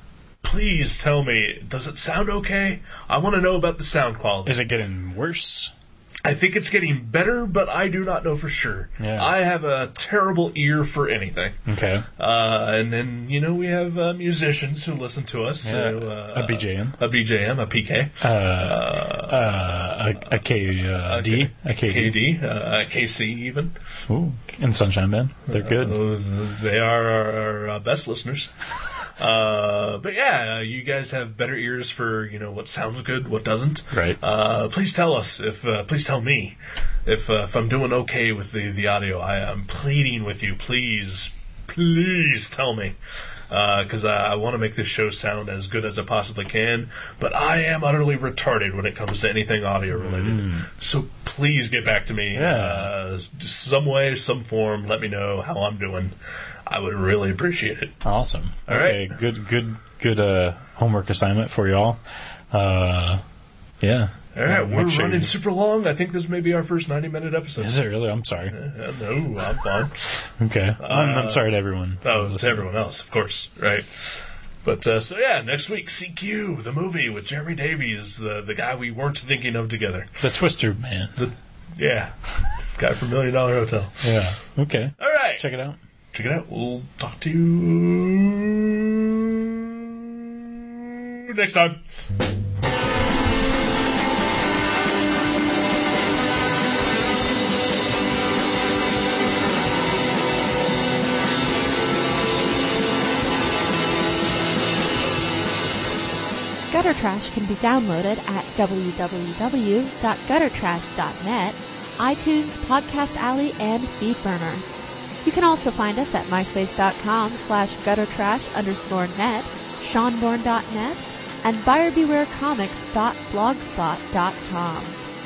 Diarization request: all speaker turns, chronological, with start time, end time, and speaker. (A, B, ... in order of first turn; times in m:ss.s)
0:00.4-0:04.6 A
0:04.4-0:05.7 B
0:06.2-0:11.6 A
0:09.0-0:09.3 B
0:11.6-0:12.0 B
0:12.2-0:19.5 A
0:15.6-0:17.0 B
0:18.2-0:22.2 B
0:21.0-0:23.7 A
0:24.1-0:26.0 B
0:25.5-0:28.5 A
0:29.2-0:43.0 A
0:33.9-0:34.2 B
0:43.5-0:56.1 A
0:49.9-0:50.7 B
0:52.3-0:52.9 B
0:56.6-0:58.0 A
0:58.0-1:02.0 B
0:58.7-0:59.1 A
1:02.5-1:03.2 B
1:03.8-1:05.3 B
1:04.3-1:07.8 A
1:07.6-1:08.5 B
1:08.5-1:10.2 A
1:10.4-1:12.7 B
1:10.8-1:11.5 A
1:12.0-1:13.9 A
1:14.6-1:20.2 A
1:20.2-1:21.2 B
1:21.2-1:22.1 A
1:22.8-1:24.2 A
1:24.0-1:25.8 B
1:25.0-1:25.4 A
1:26.1-1:31.8 A
1:46.7-1:54.6 C
1:55.2-2:05.0 C